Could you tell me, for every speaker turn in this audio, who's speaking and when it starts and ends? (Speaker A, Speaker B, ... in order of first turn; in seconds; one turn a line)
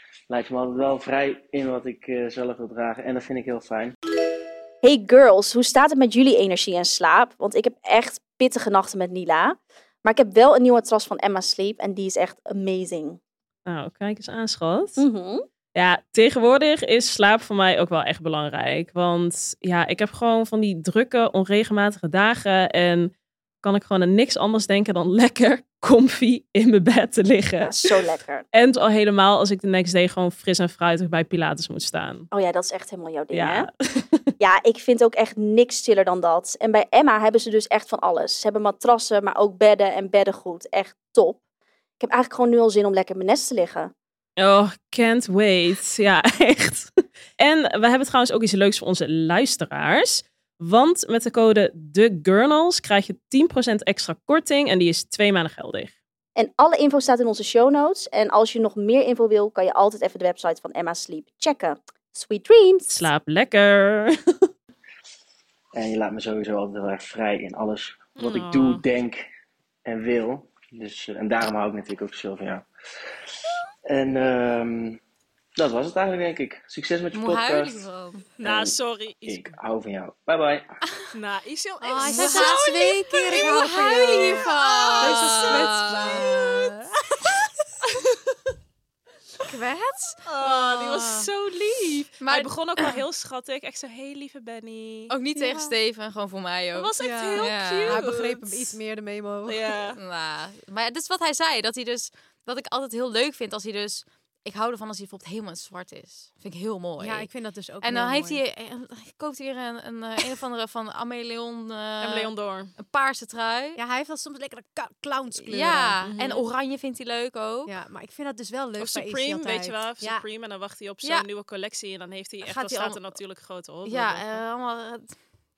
Speaker A: 0.3-3.9
Speaker B: 4.8-13.2
Speaker C: 13.7-15.0
Speaker B: 15.0-15.4
Speaker C: 15.7-27.9
Speaker B: 27.6-28.4
Speaker C: 28.5-32.3
Speaker B: 32.3-33.7
Speaker C: 33.3-34.3
Speaker B: 34.4-41.4
Speaker B: 42.0-43.9
Speaker C: 44.4-55.9
Speaker B: 56.4-63.1
Speaker C: 62.9-64.5
Speaker A: 65.7-69.2
Speaker C: 68.2-68.8
Speaker A: 69.8-72.6
Speaker A: 73.9-75.0
Speaker A: 75.6-77.8
Speaker D: 77.1-78.2
Speaker C: 78.4-79.5
Speaker A: 78.4-78.7
Speaker A: 79.2-80.6
Speaker C: 81.1-84.4
Speaker E: 81.8-87.3
Speaker D: 82.0-86.6
Speaker C: 85.0-86.3
Speaker C: 87.8-88.3
Speaker D: 89.4-90.2
Speaker C: 90.2-95.1
Speaker E: 90.4-91.3
Speaker D: 92.2-93.0
Speaker D: 95.1-98.1
Speaker E: 95.3-95.7
Speaker C: 96.7-98.7
Speaker E: 97.0-99.7
Speaker C: 99.5-100.0
Speaker D: 99.9-107.3
Speaker E: 107.0-108.4
Speaker D: 107.8-113.8
Speaker C: 112.0-112.7
Speaker E: 113.8-116.0
Speaker D: 115.4-117.7
Speaker C: 116.0-116.5
Speaker E: 117.7-120.2
Speaker C: 118.8-124.4
Speaker D: 122.4-123.2
Speaker D: 123.8-125.2